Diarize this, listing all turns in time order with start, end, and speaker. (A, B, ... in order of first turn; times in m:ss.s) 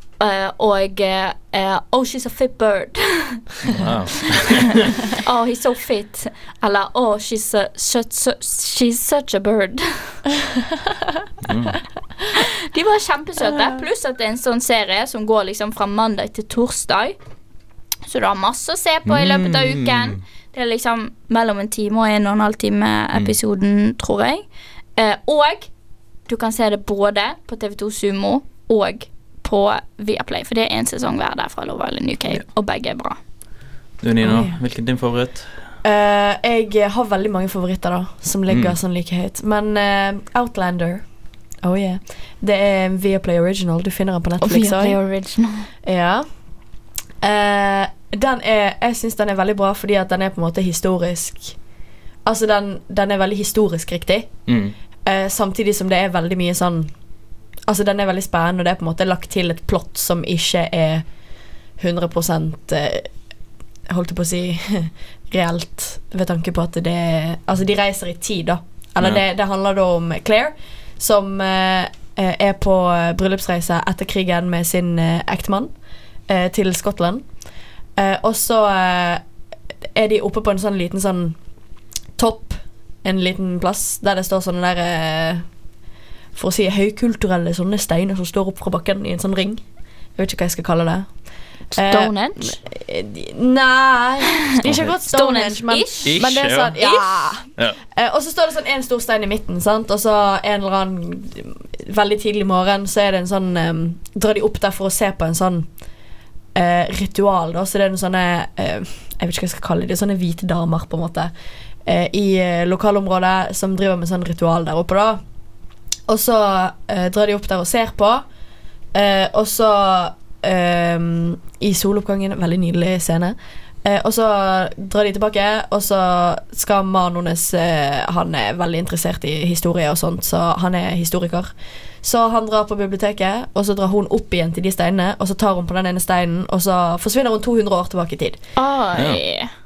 0:00.2-0:03.4 A
0:03.7-0:05.0 B
0:05.1-0:10.2 A
0:11.4-0:11.8 B
0:12.3-0:17.2 A
0:18.1-0:25.7 A
0:19.0-0:20.2 B
0:26.3-0:33.2 A
0:34.0-0:35.5 B
0:34.2-0:34.6 C
0:35.8-0:41.0 C
0:38.5-0:38.8 B
0:41.6-0:45.0 C
0:44.4-0:45.7 A
0:45.8-0:46.2 C
0:47.2-0:51.6 C
0:52.2-0:54.3 C
0:54.5-0:54.7 B
0:55.0-0:56.9 C
0:57.7-1:01.0 C
1:01.8-1:03.1 C
1:03.9-1:15.7 C
1:16.3-1:17.2 C
1:18.0-1:19.2 C
1:19.9-1:21.4 C
1:22.2-1:25.4 C
1:26.3-1:29.6 C
1:30.2-1:31.1 C
1:31.7-1:45.7 C
1:31.8-1:32.6 A
1:34.6-1:34.9 B
1:35.0-1:36.2 A
1:36.0-1:36.8 B
1:46.5-1:51.3 C
1:51.8-1:55.2 C
1:56.1-1:58.2 C
1:58.9-2:11.5 C
2:12.0-2:18.4 C
2:18.6-2:19.5 A